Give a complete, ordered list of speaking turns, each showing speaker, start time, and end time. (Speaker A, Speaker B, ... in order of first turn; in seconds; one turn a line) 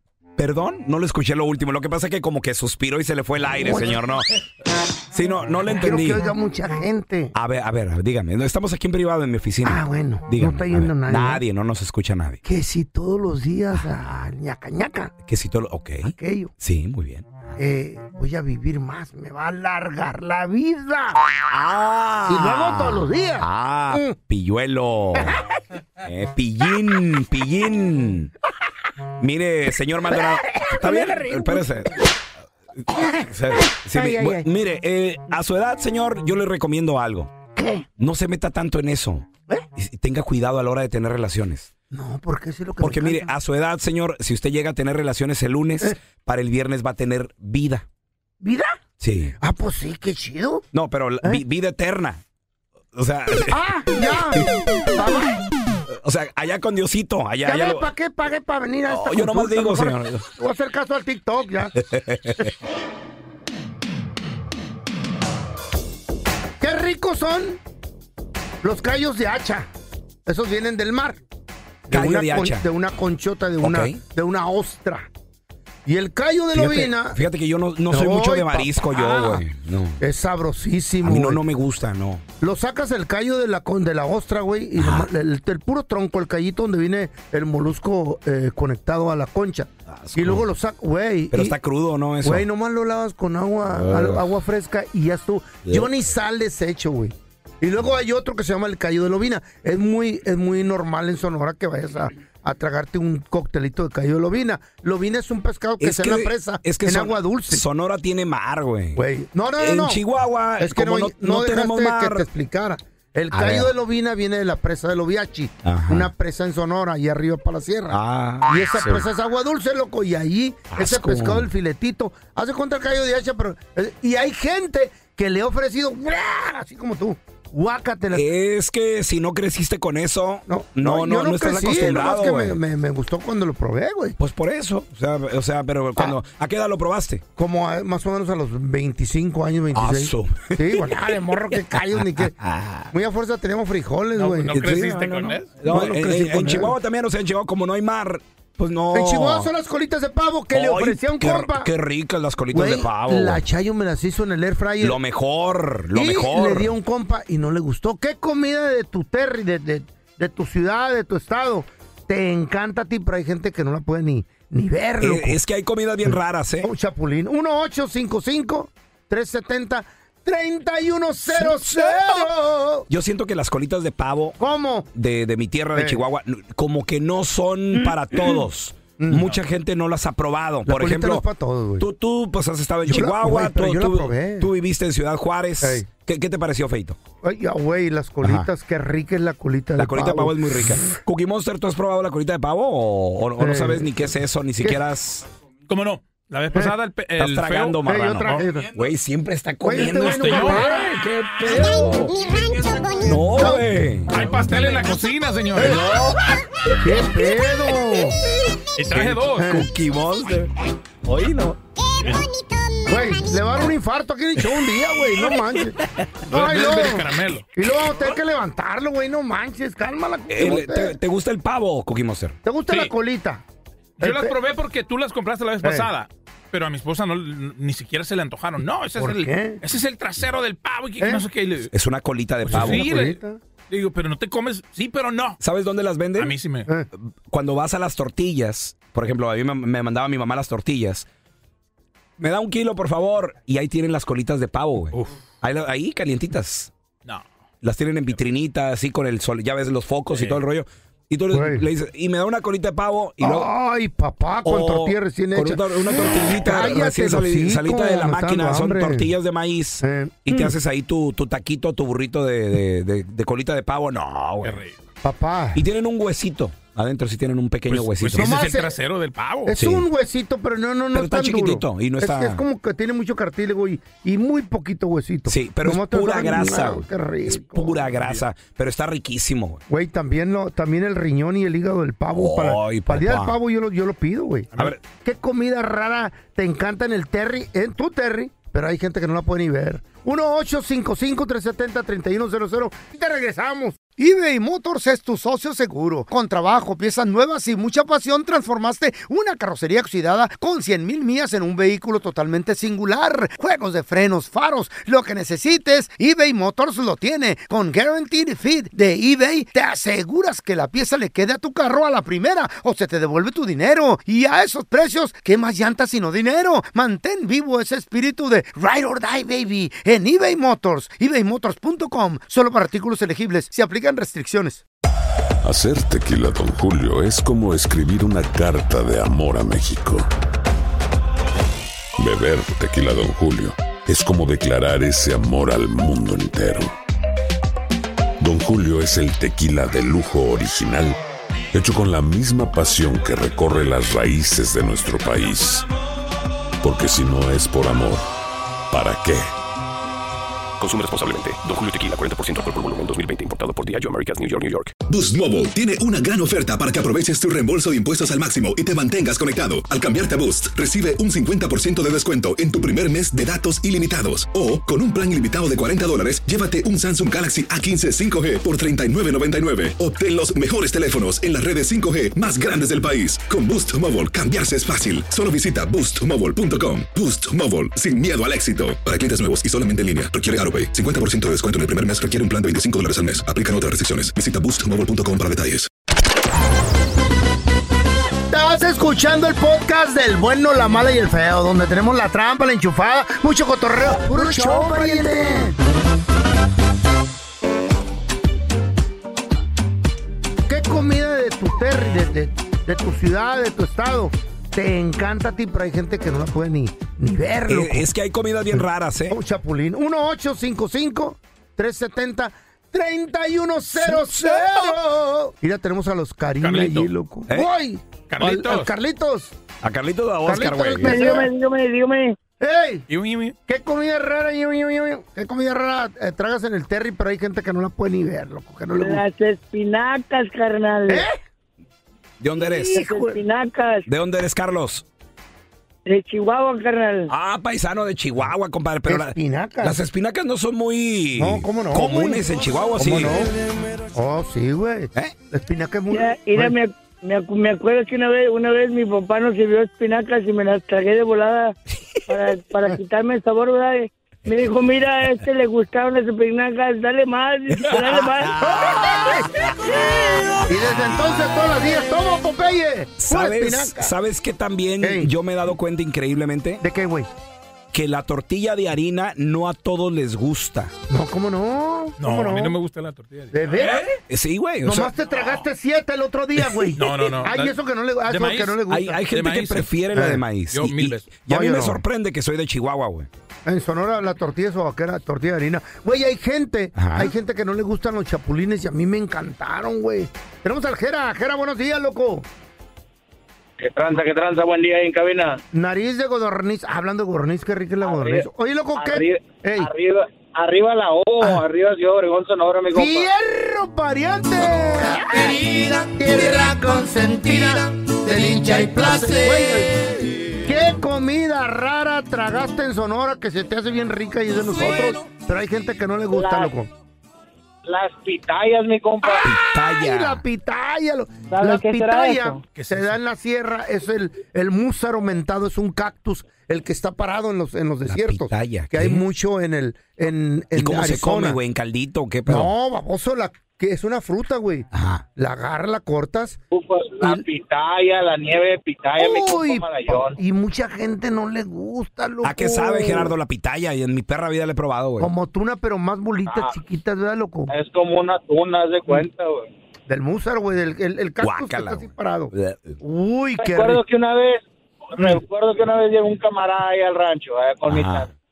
Speaker A: 0.4-4.2
Speaker B: 3.6-4.0
Speaker A: 5.1-6.3
Speaker B: 5.8-7.3
Speaker A: 7.3-12.4
Speaker B: 9.6-11.4
Speaker B: 12.4-15.1
Speaker A: 15.3-17.6
Speaker B: 16.0-16.5
Speaker B: 17.6-21.2
Speaker A: 21.5-25.4
Speaker B: 22.3-24.1
Speaker B: 25.2-25.4
Speaker A: 26.0-28.3
Speaker A: 29.2-32.0
Speaker B: 30.1-31.7
Speaker B: 33.0-34.5
Speaker A: 33.2-37.3
Speaker B: 37.6-37.9
Speaker A: 38.0-41.7
Speaker B: 41.9-43.3
Speaker A: 42.8-47.9
Speaker B: 48.4-48.7
Speaker A: 49.0-49.4
Speaker B: 49.4-50.6
Speaker A: 50.7-52.2
Speaker A: 52.9-53.6
Speaker B: 53.4-55.4
Speaker A: 55.9-57.9
Speaker B: 57.4-61.8
Speaker A: 58.9-60.2
Speaker A: 61.8-62.5
Speaker B: 66.6-67.6
Speaker B: 68.6-69.7
Speaker B: 70.2-71.2
Speaker B: 71.9-75.1
Speaker A: 71.9-72.7
Speaker A: 73.6-74.0
Speaker B: 75.8-77.2
Speaker A: 76.5-80.0
Speaker B: 77.9-79.4
Speaker B: 80.0-81.4
Speaker A: 81.0-82.2
Speaker B: 82.4-91.6
Speaker A: 84.8-85.1
Speaker A: 89.9-90.5
Speaker A: 91.3-92.5
Speaker B: 92.2-107.6
Speaker A: 93.7-94.3
Speaker A: 105.8-109.0
Speaker B: 109.0-110.0
Speaker A: 109.6-112.3
Speaker B: 110.6-128.3
Speaker A: 113.3-113.7
Speaker A: 115.6-116.1
Speaker A: 117.9-119.1
Speaker A: 120.7-121.5
Speaker A: 128.1-132.6
Speaker B: 130.5-134.2
Speaker A: 134.2-137.2
Speaker B: 137.4-142.3
Speaker A: 139.7-142.9
Speaker B: 142.9-144.9
Speaker C: 144.2-145.6
Speaker A: 144.6-149.5
Speaker B: 145.7-146.7
Speaker B: 148.9-151.7
Speaker A: 150.5-153.4
Speaker B: 152.5-155.0
Speaker A: 154.8-156.7
Speaker B: 155.9-165.4
Speaker A: 165.0-166.7
Speaker B: 166.1-172.9
Speaker A: 171.4-172.2
Speaker A: 172.9-174.4
Speaker B: 174.4-174.9
Speaker A: 174.9-181.2
Speaker B: 177.8-178.4
Speaker B: 179.0-179.3
Speaker B: 180.7-181.9
Speaker A: 181.8-187.0
Speaker B: 182.9-184.5
Speaker B: 187.2-190.9
Speaker A: 188.2-188.5
Speaker A: 189.8-195.3
Speaker B: 193.4-193.9
Speaker C: 195.7-198.6
Speaker A: 197.2-202.2
Speaker B: 197.8-198.7
Speaker B: 199.6-200.9
Speaker C: 200.0-200.7
Speaker A: 203.0-204.1
Speaker C: 204.1-206.0
Speaker A: 205.6-206.2
Speaker B: 206.8-208.2
Speaker C: 208.8-209.5
Speaker A: 208.9-210.5
Speaker B: 209.4-209.7
Speaker A: 211.1-211.6
Speaker B: 212.8-215.8
Speaker C: 216.3-217.4
Speaker B: 216.3-220.9
Speaker A: 220.3-222.4
Speaker B: 222.4-223.4
Speaker C: 224.0-231.7
Speaker B: 224.0-224.3
Speaker B: 225.6-225.9
Speaker B: 228.9-229.6
Speaker A: 231.7-232.9
Speaker C: 232.5-233.2
Speaker B: 232.5-233.4
Speaker C: 233.7-235.4
Speaker A: 235.4-236.3
Speaker C: 236.2-236.7
Speaker A: 237.0-241.1
Speaker A: 242.2-246.7
Speaker A: 247.6-253.5
Speaker C: 250.1-250.4
Speaker B: 251.3-251.7
Speaker B: 253.2-259.1
Speaker A: 254.4-264.6
Speaker B: 259.8-260.5
Speaker C: 264.4-264.7
Speaker B: 265.0-265.6
Speaker A: 265.6-268.4
Speaker C: 267.7-269.6
Speaker B: 268.2-268.7
Speaker B: 269.4-277.9
Speaker A: 269.6-269.9
Speaker A: 270.9-272.4
Speaker A: 275.3-279.6
Speaker B: 279.7-324.6
Speaker A: 282.1-283.4
Speaker D: 325.4-330.1
Speaker D: 332.0-336.7
Speaker D: 338.2-341.0
Speaker D: 341.5-345.7
Speaker D: 346.6-348.1
Speaker D: 348.7-349.3
Speaker E: 350.6-354.7
Speaker F: 354.9-385.7
Speaker B: 388.3-395.6
Speaker B: 400.5-407.9
Speaker A: 407.5-409.2
Speaker B: 408.5-419.3
Speaker C: 416.4-416.9
Speaker C: 418.1-418.7
Speaker A: 419.6-421.1
Speaker B: 420.3-421.3
Speaker G: 420.8-422.2
Speaker B: 422.4-422.8
Speaker C: 422.9-423.3
Speaker B: 423.5-429.0
Speaker G: 428.8-431.1
Speaker B: 430.9-431.2
Speaker A: 432.2-432.8
Speaker B: 432.4-433.2
Speaker G: 432.6-433.9
Speaker A: 433.9-434.8
Speaker G: 435.9-437.1
Speaker A: 437.1-443.3
Speaker B: 438.9-439.8
Speaker B: 441.2-442.2
Speaker B: 442.8-443.3
Speaker B: 443.9-446.6
Speaker G: 445.9-451.6
Speaker G: 452.1-458.3
Speaker A: 457.5-459.8
Speaker B: 458.4-459.3
Speaker B: 460.4-463.9
Speaker A: 463.0-466.6
Speaker B: 464.8-465.1
Speaker B: 466.6-467.1
Speaker A: 467.7-470.7
Speaker B: 470.9-472.6
Speaker C: 472.0-473.9
Speaker B: 473.3-473.9
Speaker A: 474.1-474.9
Speaker B: 474.6-479.0
Speaker C: 476.8-477.6
Speaker C: 478.1-479.7
Speaker A: 478.7-483.1
Speaker B: 479.9-480.2
Speaker C: 480.5-481.1
Speaker B: 481.3-481.8
Speaker B: 483.4-492.2
Speaker A: 486.8-487.1
Speaker H: 493.6-495.4
Speaker B: 495.5-499.7
Speaker H: 497.8-503.1
Speaker B: 502.7-509.7
Speaker B: 510.4-516.7
Speaker H: 516.1-516.5
Speaker H: 517.6-519.3
Speaker B: 519.0-531.4
Speaker A: 519.2-520.2
Speaker G: 521.9-522.2
Speaker C: 522.5-523.0
Speaker A: 527.9-529.0
Speaker A: 530.5-532.5
Speaker B: 532.3-536.4
Speaker A: 534.7-535.0
Speaker H: 536.5-540.2
Speaker B: 539.0-543.1
Speaker A: 542.2-545.1
Speaker B: 545.0-547.5
Speaker H: 546.3-546.6
Speaker H: 547.5-549.5
Speaker B: 549.9-553.8
Speaker A: 551.2-552.8
Speaker H: 553.4-554.4
Speaker H: 554.9-558.1
Speaker A: 557.7-558.1